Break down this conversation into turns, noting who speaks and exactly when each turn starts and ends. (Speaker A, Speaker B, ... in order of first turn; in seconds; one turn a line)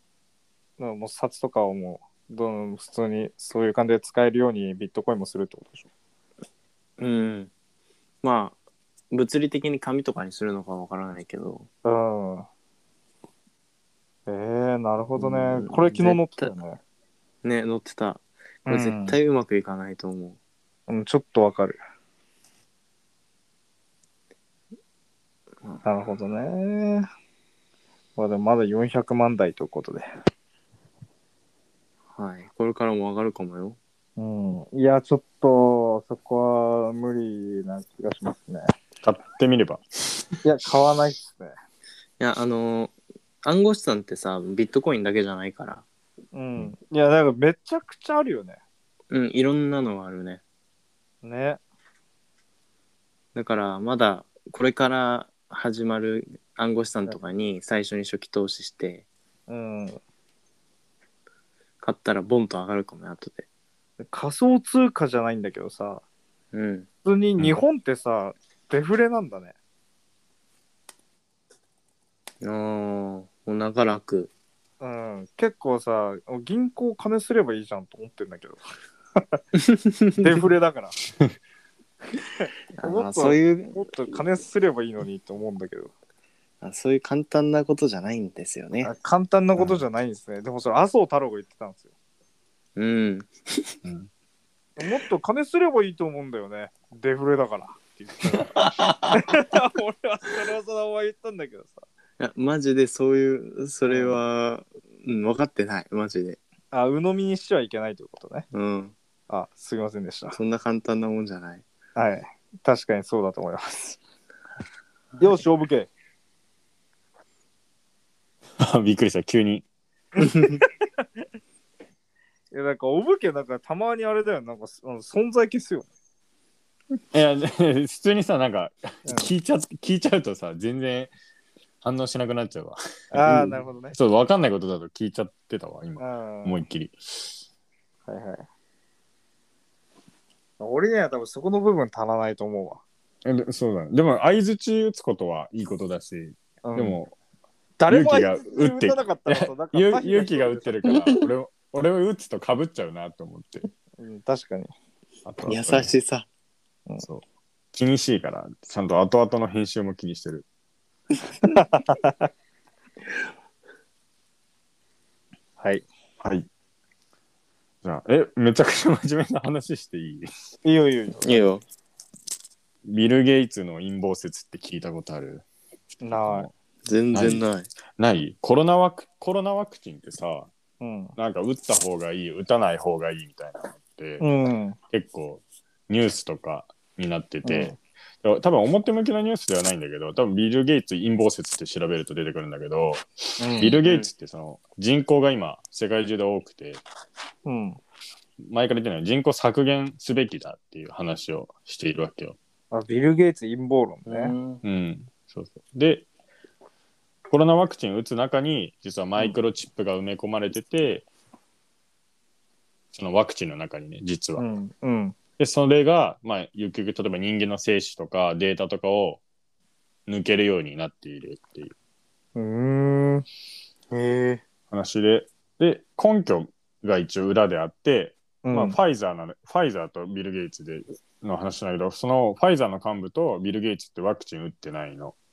Speaker A: 0.8-5.9
Speaker B: 7.0-7.5
Speaker B: 8.2-8.6
Speaker B: 9.1-11.7
Speaker A: 11.8-12.5
Speaker A: 14.3-16.8
Speaker B: 15.2-16.5
Speaker B: 17.4-20.4
Speaker A: 18.7-19.1
Speaker A: 20.9-21.8
Speaker A: 25.8-27.1
Speaker A: 28.1-30.1
Speaker B: 32.1-33.8
Speaker A: 34.2-38.7
Speaker C: 39.0-40.3
Speaker A: 40.4-41.5
Speaker B: 42.2-45.8
Speaker A: 46.3-48.6
Speaker B: 49.1-50.4
Speaker A: 51.2-51.6
Speaker B: 53.3-59.0
Speaker A: 59.5-60.0
Speaker B: 61.8-63.4
Speaker A: 64.0-66.0
Speaker B: 66.5-66.9
Speaker A: 67.0-69.5
Speaker B: 72.4-74.3
Speaker A: 74.8-78.6
Speaker A: 79.2-79.4
Speaker B: 79.6-80.2
Speaker A: 80.2-81.0
Speaker A: 82.4-85.9
Speaker B: 82.8-83.9
Speaker B: 86.6-88.9
Speaker A: 88.8-91.8
Speaker B: 92.8-93.8
Speaker A: 94.8-101.8
Speaker B: 98.6-99.2
Speaker B: 102.2-106.4
Speaker A: 103.9-104.2
Speaker A: 106.7-108.5
Speaker B: 108.5-108.9
Speaker A: 109.3-110.4
Speaker B: 110.3-111.6
Speaker A: 112.0-114.0
Speaker A: 115.2-115.9
Speaker C: 118.6-119.6
Speaker A: 120.2-120.6
Speaker A: 122.5-125.9
Speaker C: 127.1-131.1
Speaker C: 131.8-137.4
Speaker A: 133.1-133.9
Speaker A: 136.0-136.6
Speaker A: 138.1-138.4
Speaker A: 140.6-142.8
Speaker C: 143.2-147.1
Speaker A: 146.6-147.0
Speaker A: 147.8-150.8
Speaker C: 147.9-153.7
Speaker A: 154.0-154.7
Speaker C: 155.2-155.9
Speaker B: 155.4-156.2
Speaker C: 157.0-160.4
Speaker A: 161.4-162.3
Speaker A: 165.6-165.8
Speaker C: 166.2-166.5
Speaker C: 167.8-170.3
Speaker A: 170.6-171.5
Speaker B: 171.2-171.6
Speaker C: 172.8-175.4
Speaker A: 176.0-176.5
Speaker C: 176.1-176.5
Speaker B: 176.8-177.7
Speaker C: 177.1-177.4
Speaker C: 178.0-180.5
Speaker A: 180.8-181.1
Speaker C: 181.2-184.2
Speaker A: 184.2-184.8
Speaker C: 184.9-196.8
Speaker A: 187.4-187.8
Speaker A: 193.4-193.8
Speaker B: 193.8-194.1
Speaker A: 197.4-197.8
Speaker C: 198.4-202.4
Speaker A: 202.7-204.3
Speaker B: 204.1-204.6
Speaker C: 204.6-206.1
Speaker C: 207.3-211.1
Speaker C: 212.9-214.4
Speaker A: 214.4-215.1
Speaker C: 215.4-219.2
Speaker C: 220.1-221.7
Speaker A: 222.3-223.2
Speaker B: 223.9-224.4
Speaker C: 224.7-235.1
Speaker A: 228.4-228.8